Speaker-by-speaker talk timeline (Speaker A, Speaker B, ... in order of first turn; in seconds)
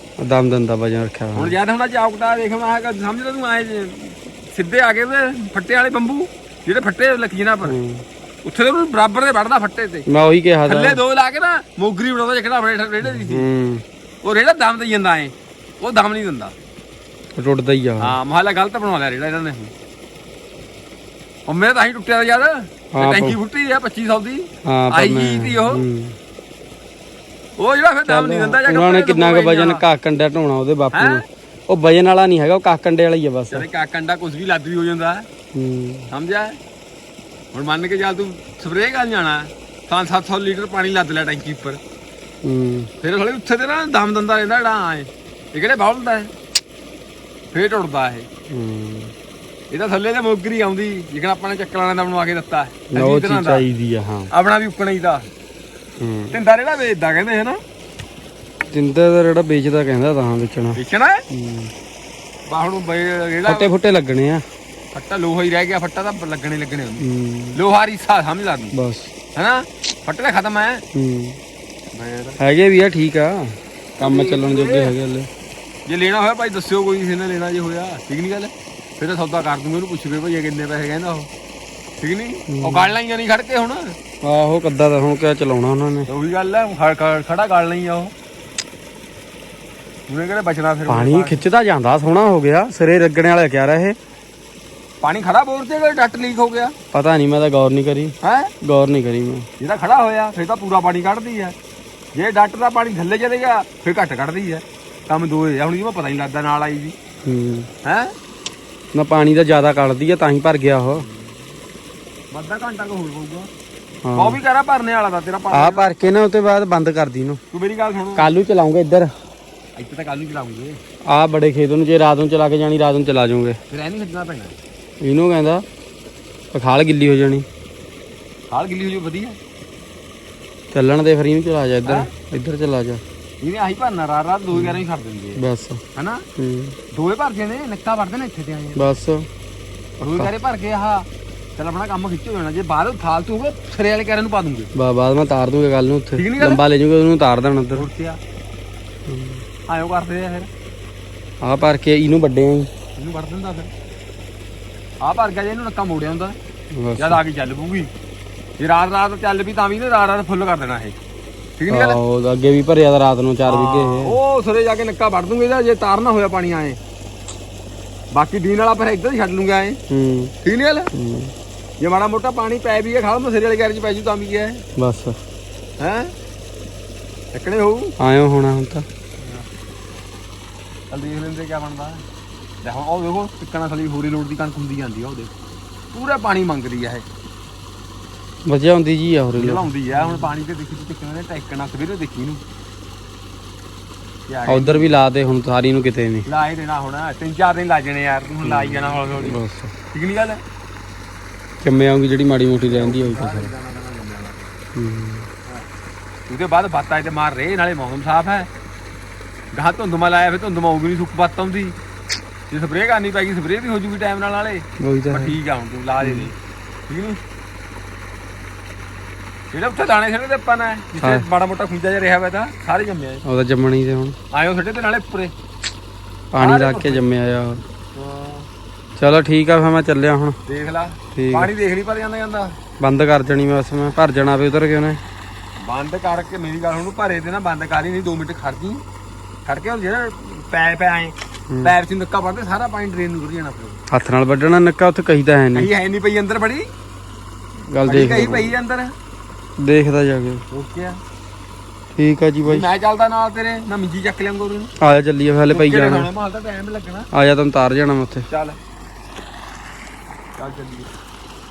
Speaker A: 0.2-1.6, 7.6-8.1, 10.1-11.0, 13.1-13.8, 17.4-18.2, 22.9-23.4, 24.6-26.2, 28.1-33.7, 35.5-36.1, 42.4-42.9, 48.5-49.1, 52.9-54.3, 56.0-56.4, 58.7-60.8, 61.3-61.7, 63.5-64.5, 67.0-67.6, 68.7-69.1, 70.9-71.4, 72.4-75.3, 82.5-82.9, 84.2-86.1, 90.9-94.0, 96.9-99.5, 107.2-107.7, 108.9-111.1, 114.0-114.4, 115.5-117.4, 118.2-119.1, 121.1-123.6, 125.0-125.6, 126.5-127.5, 130.7-133.0, 134.5-134.8, 135.4-135.8, 136.4-136.8, 138.8-139.3, 144.8-147.9, 149.1-149.4, 151.4-152.7, 156.7-157.2, 161.7-164.2, 169.9-170.3, 170.9-171.3, 174.8-175.2, 178.0-178.9, 188.4-190.3, 194.5-196.3, 198.4-199.7, 201.6-203.5, 204.8-205.3, 214.8-215.4, 216.0-216.3, 220.9-221.3, 223.2-224.2, 226.3-227.6, 229.0-230.4, 231.2-231.5, 232.8-235.0, 243.9-245.7, 247.7-248.6, 249.6-250.4, 251.9-252.7, 254.8-256.1, 257.1-258.3
Speaker B: 1.4-7.8, 8.4-10.1, 10.7-13.5, 14.2-16.6, 18.0-19.7, 21.5-25.9, 27.6-29.9, 30.9-31.2, 33.5-35.3, 36.1-36.6, 37.5-41.8, 43.0-46.3, 47.5-48.3, 49.7-53.7, 54.3-55.3, 56.3-57.6, 60.8-61.2, 62.5-63.7, 64.9-68.7, 69.3-70.8, 71.9-72.4, 74.0-75.0, 75.9-81.3, 82.0-84.0, 86.1-88.1, 90.1-91.4, 95.0-96.7, 98.2-98.5, 99.6-101.5, 102.1-107.0, 107.8-108.1, 111.0-111.3, 112.3-113.5, 114.2-115.9, 117.5-118.3, 119.8-120.8, 123.7-124.6, 128.5-129.4, 131.8-132.1, 133.4-135.4, 135.9-136.2, 136.9-138.8, 140.0-144.7, 146.2-146.6, 147.8-148.2, 149.7-150.5, 153.0-153.7, 155.0-156.4, 157.0-157.9, 158.6-161.0, 161.6-162.0, 163.5-166.8, 168.1-169.8, 170.4-170.9, 171.8-174.6, 175.8-176.1, 177.3-177.9, 179.2-179.4, 180.9-182.0, 182.6-185.4, 185.9-187.1, 189.4-192.4, 194.3-195.0, 196.2-199.4, 199.9-200.4, 202.7-204.5, 206.3-208.5, 209.5-211.8, 212.5-216.3, 216.9-217.2, 219.5-223.2, 224.3-225.3, 226.4-227.1, 227.9-228.5, 230.5-232.6, 235.6-238.8, 239.5-243.8, 245.5-246.7, 247.9-248.9, 250.5-251.0, 252.5-254.7, 255.5-257.1, 258.3-258.6, 260.4-260.9